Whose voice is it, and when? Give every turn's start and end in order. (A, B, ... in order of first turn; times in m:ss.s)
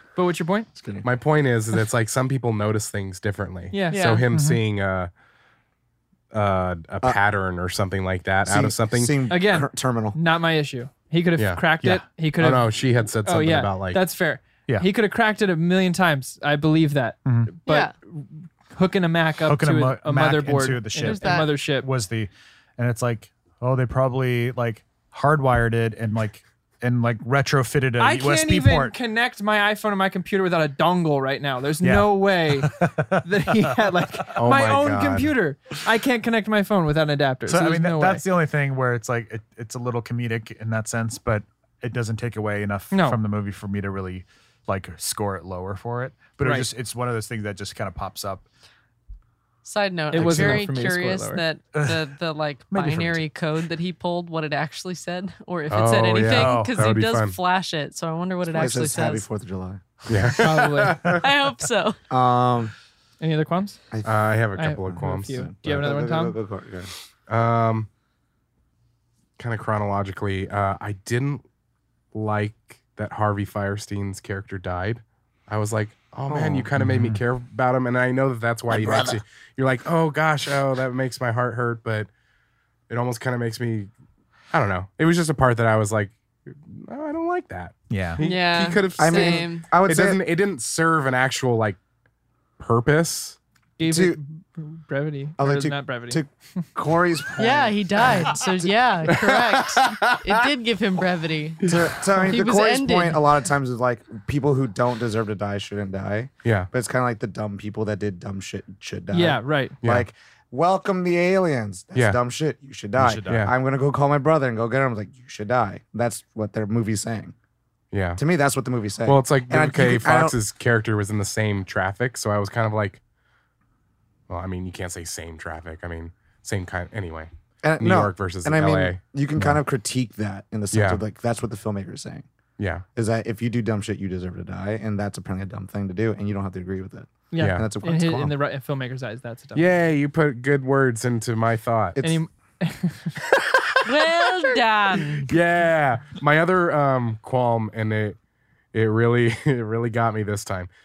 0:00.2-0:00.7 A
0:00.8-0:01.1 B
0:01.0-0:05.1 C
0:03.7-0:04.1 A
0:03.9-0:04.2 D
0:04.3-0:04.6 E
0:06.3-0:09.2 C
0:08.4-0:10.2 B
0:09.3-0:21.9 A
0:11.4-0:11.6 C
0:12.4-0:14.0 C
0:17.2-0:17.5 E
0:17.7-0:17.9 D
0:19.5-0:29.0 E
0:21.0-0:21.5 D
0:28.0-0:38.2 A
0:31.8-0:34.4 E
0:34.4-0:35.3 C
0:37.5-0:48.4 E
0:42.9-0:43.2 A
0:46.4-0:46.7 A
0:49.6-0:59.3 D
0:50.1-0:51.4 A
0:50.3-0:50.6 E
0:51.8-0:52.1 E
0:52.7-0:53.2 E
0:55.7-0:57.4 C
0:56.3-0:56.8 E
0:58.5-1:00.3 B
1:00.1-1:01.2 C
1:00.4-1:01.2 A
1:01.1-1:02.0 D
1:02.1-1:02.7 B
1:03.2-1:03.9 A
1:03.9-1:04.4 B
1:04.0-1:05.5 C
1:04.6-1:06.4 A
1:04.9-1:06.9 B
1:07.3-1:07.9 C
1:09.4-1:11.4 C
1:12.1-1:22.1 C
1:16.3-1:16.7 B
1:16.8-1:17.2 E
1:18.7-1:19.2 B
1:22.9-1:23.9 C
1:24.5-1:31.8 C
1:27.9-1:28.2 E
1:28.2-1:29.7 D
1:29.0-1:30.2 B
1:32.6-1:33.4 C
1:33.8-1:36.2 A
1:33.9-1:34.2 B
1:35.4-1:38.7 B
1:37.4-1:43.3 D
1:39.1-1:40.4 C
1:41.6-1:42.0 C
1:41.6-1:57.4 B
1:49.1-1:49.8 A
1:53.0-1:53.5 E
1:53.3-1:53.5 C
1:57.9-1:58.2 C
1:58.2-2:00.4 B
1:59.0-2:03.0 C
2:04.3-2:09.0 C
2:07.6-2:12.3 B
2:10.7-2:11.0 C
2:12.6-2:12.8 C
2:13.0-2:18.3 B
2:17.3-2:19.8 A
2:17.4-2:17.7 C
2:19.6-2:22.0 C
2:22.0-2:23.2 A
2:23.3-2:24.3 C
2:23.8-2:25.3 D
2:25.2-2:28.2 C
2:28.7-2:30.7 C